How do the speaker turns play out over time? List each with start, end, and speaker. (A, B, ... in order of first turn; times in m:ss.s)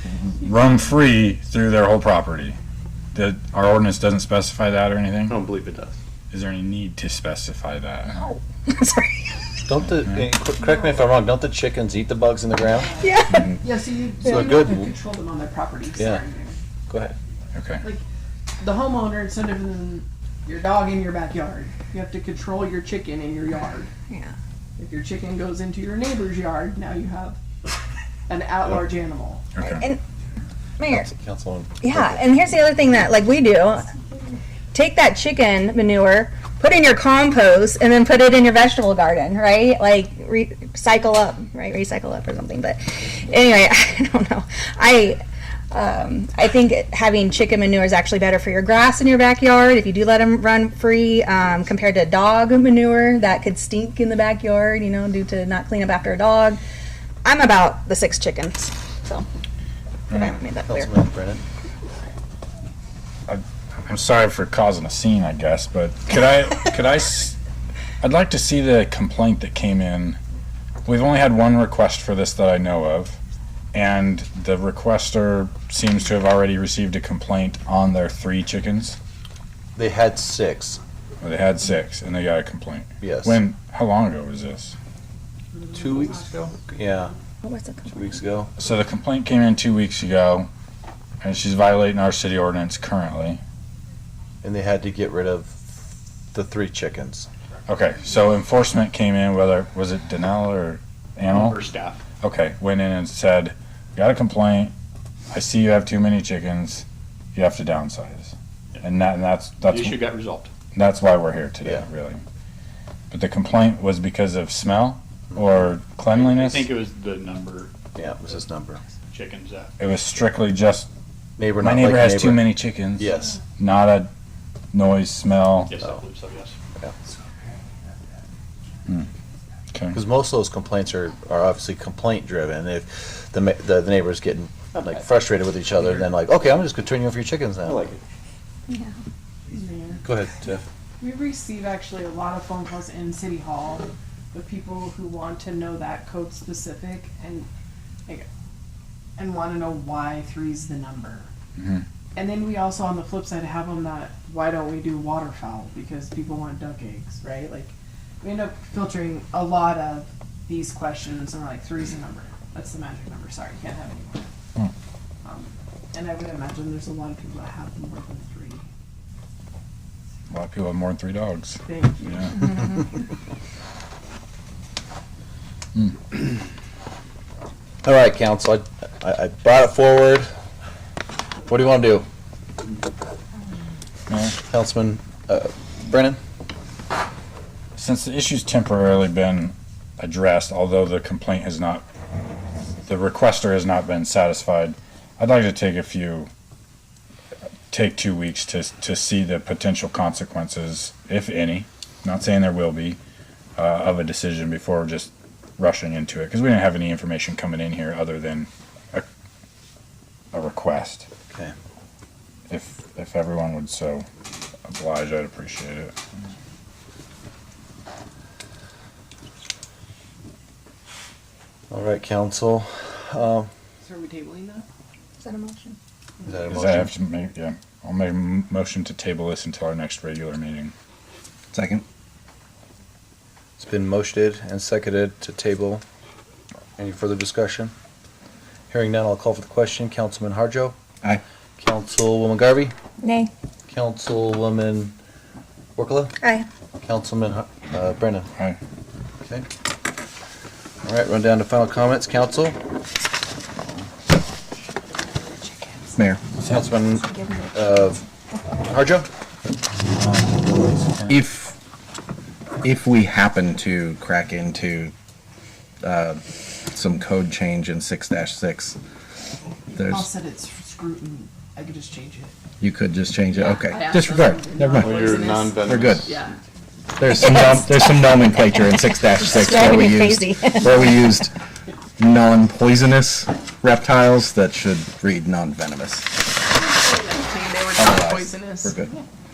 0:00.4-0:02.6 A
0:03.2-0:05.4 A
0:05.5-0:05.9 B
0:06.3-0:08.3 A
0:08.2-0:09.6 C
0:09.7-0:12.9 D
0:09.9-0:10.2 A
0:12.8-0:16.6 E
0:13.0-0:13.5 C
0:14.3-0:14.9 D
0:16.0-0:16.2 D
0:16.9-0:17.2 D
0:17.6-0:17.8 A
0:18.6-0:23.9 E
0:24.1-0:24.4 C
0:24.8-0:27.4 E
0:28.3-0:29.4 E
0:29.6-0:29.8 A
0:29.6-0:30.0 C
0:30.8-0:31.1 C
0:30.9-0:32.2 D
0:31.8-0:33.9 C
0:34.7-0:45.2 C
0:45.7-0:56.6 C
0:57.2-0:59.3 C
1:00.1-1:00.9 C
1:00.1-1:00.4 A
1:00.7-1:01.4 D
1:03.3-1:07.4 A
1:08.0-1:10.2 A
1:10.8-1:13.2 A
1:13.7-1:19.0 A
1:19.8-1:20.8 D
1:21.2-1:24.8 A
1:23.0-1:23.4 D
1:25.7-1:27.1 D
1:27.4-1:28.0 C
1:27.9-1:28.5 D
1:28.6-1:30.5 A
1:31.2-1:33.4 A
1:34.4-1:37.3 D
1:37.7-1:41.6 A
1:41.3-1:42.0 B
1:42.2-1:44.7 A
1:45.3-1:50.0 A
1:49.6-1:50.5 B
1:50.7-1:52.2 A
1:53.1-1:56.7 A
1:56.2-1:57.7 B
1:58.0-1:58.8 D
1:59.1-1:59.7 B
1:59.8-2:00.9 A
2:01.4-2:02.5 D
2:01.6-2:04.1 A
2:03.0-2:03.4 D
2:04.7-2:05.7 A
2:05.7-2:06.6 B
2:09.7-2:10.0 A
2:09.9-2:17.9 D
2:17.7-2:18.0 B
2:19.5-2:20.0 E
2:20.0-2:20.6 D
2:21.0-2:27.5 E
2:29.2-2:31.3 E
2:31.6-2:31.8 A
2:32.2-2:44.3 E
2:45.2-2:48.6 E
2:50.3-2:52.5 A
2:51.7-2:52.5 E
2:57.8-3:00.3 D
3:01.5-3:02.1 D
3:04.1-3:04.4 A
3:04.5-3:06.2 D
3:07.8-3:11.9 A
3:12.9-3:16.3 A
3:17.7-3:23.0 A
3:23.6-3:29.1 A
3:30.3-3:31.1 A
3:32.5-3:34.1 A
3:34.7-3:35.9 A
3:41.7-3:43.5 D
3:43.8-3:44.7 E
3:45.2-3:45.8 C
3:46.2-3:46.9 D
3:46.5-3:50.7 A
3:51.5-3:51.8 F
3:53.6-3:55.8 D
3:56.8-3:57.7 D
3:58.7-4:00.8 D
4:01.6-4:02.7 D
4:03.0-4:03.3 C
4:03.7-4:05.0 D
4:05.8-4:06.2 D
4:06.8-4:08.3 D
4:10.8-4:12.6 D
4:15.4-4:15.9 C
4:16.0-4:16.2 F
4:16.4-4:18.0 D
4:17.0-4:17.5 C
4:18.7-4:19.1 D
4:19.9-4:21.2 A
4:21.1-4:21.6 F
4:22.6-4:24.9 F
4:25.8-4:28.8 F
4:29.7-4:30.1 F
4:29.8-4:32.4 E
4:32.6-4:35.0 F
4:33.3-4:36.4 E
4:34.7-4:36.1 B
4:35.7-4:36.1 F
4:37.0-4:41.3 F
4:37.2-4:38.0 C
4:38.6-4:41.0 C
4:42.0-4:46.2 F
4:46.5-4:49.0 E
4:47.8-4:48.9 F